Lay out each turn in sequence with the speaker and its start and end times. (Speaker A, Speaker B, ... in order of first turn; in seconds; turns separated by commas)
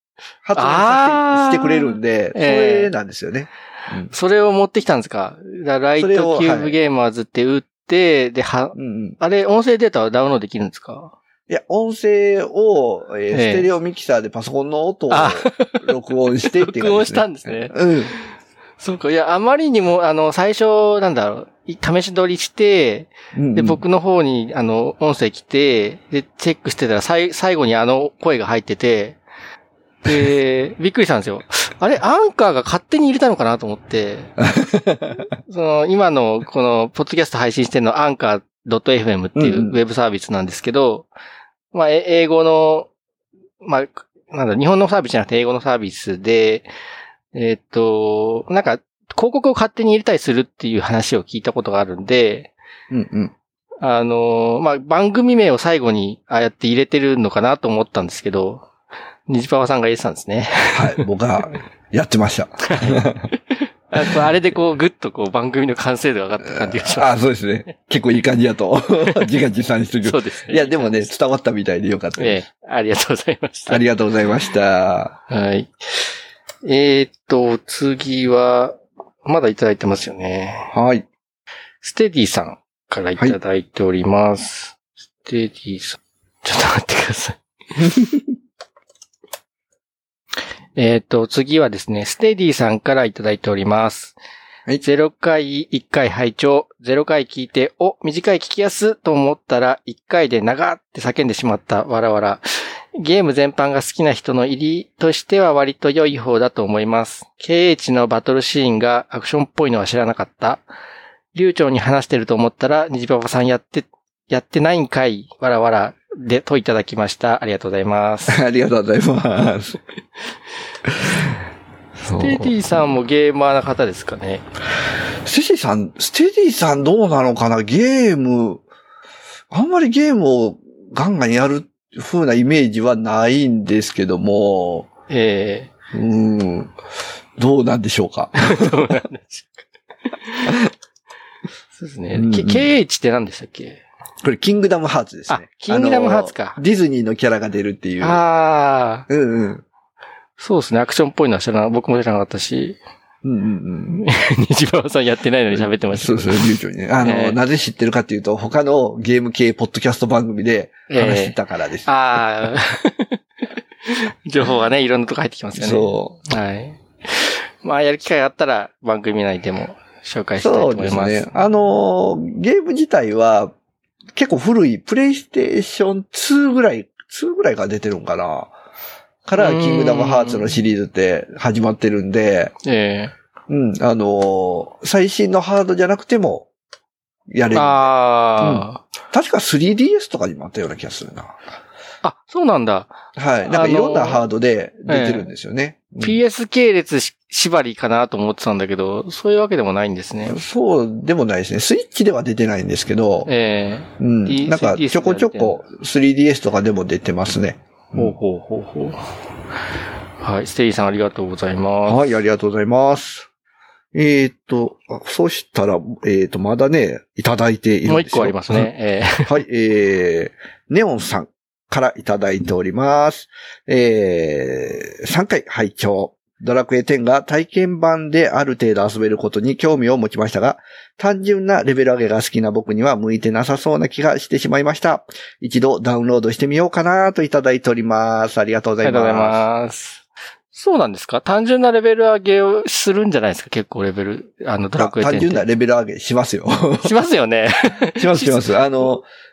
Speaker A: 0.4-4.1, Speaker B: 0.6-2.9, Speaker B: 4.1-11.2, Speaker A: 6.0-6.8, Speaker A: 8.8-9.2, Speaker A: 11.5-18.1, Speaker B: 13.3-13.7, Speaker B: 15.1-15.9, Speaker B: 16.5-29.2, Speaker A: 23.3-23.8, Speaker B: 30.1-34.4, Speaker A: 34.5-35.1, Speaker B: 35.5-41.1, Speaker A: 39.4-39.8, Speaker B: 41.7-42.9, Speaker B: 43.6-46.7, Speaker B: 47.3-52.5, Speaker A: 52.9-53.3, Speaker B: 53.8-58.7, Speaker B: 59.3-61.0, Speaker A: 60.7-63.3, Speaker B: 62.7-67.1, Speaker A: 66.5-72.4, Speaker B: 70.0-71.0, Speaker B: 72.2-73.8, Speaker A: 73.7-75.2, Speaker B: 75.3-80.7, Speaker A: 80.7-81.1, Speaker B: 81.8-87.4, Speaker A: 87.8-88.2, Speaker B: 90.8-94.2, Speaker B: 94.8-110.6, Speaker B: 111.3-118.4, Speaker A: 118.3-119.8, Speaker A: 121.0-121.4, Speaker B: 122.0-124.5, Speaker A: 122.1-122.5, Speaker A: 125.2-128.6, Speaker A: 129.5-134.9, Speaker B: 135.1-135.7, Speaker A: 135.9-136.7, Speaker A: 137.4-138.9, Speaker B: 138.4-139.6, Speaker B: 140.2-140.6, Speaker B: 141.8-143.8, Speaker A: 142.1-142.7, Speaker A: 144.2-148.2, Speaker B: 145.3-146.6, Speaker B: 148.0-149.1, Speaker A: 149.1-149.6, Speaker B: 150.4-152.8, Speaker A: 153.2-154.0, Speaker B: 153.9-156.5, Speaker A: 155.5-161.9, Speaker B: 157.0-157.4, Speaker B: 160.9-163.2, Speaker B: 163.8-171.3, Speaker A: 165.6-166.2, Speaker A: 170.4-173.5, Speaker A: 174.2-178.5, Speaker A: 179.2-182.5, Speaker B: 179.4-180.6, Speaker B: 182.7-183.1, Speaker A: 183.5-186.5, Speaker A: 187.3-187.9, Speaker B: 187.5-188.8, Speaker A: 188.4-191.4, Speaker B: 192.0-193.0, Speaker A: 193.2-196.2, Speaker B: 193.5-194.2, Speaker B: 194.9-195.3, Speaker B: 196.0-200.4, Speaker A: 200.2-203.3, Speaker B: 203.3-205.6, Speaker A: 204.0-208.2, Speaker B: 207.9-209.0, Speaker B: 210.2-212.1, Speaker A: 211.8-213.3, Speaker A: 213.9-218.7, Speaker B: 217.9-219.3, Speaker A: 219.2-239.4, Speaker B: 238.8-245.5, Speaker A: 244.8-246.9, Speaker B: 246.8-248.6, Speaker A: 248.0-249.1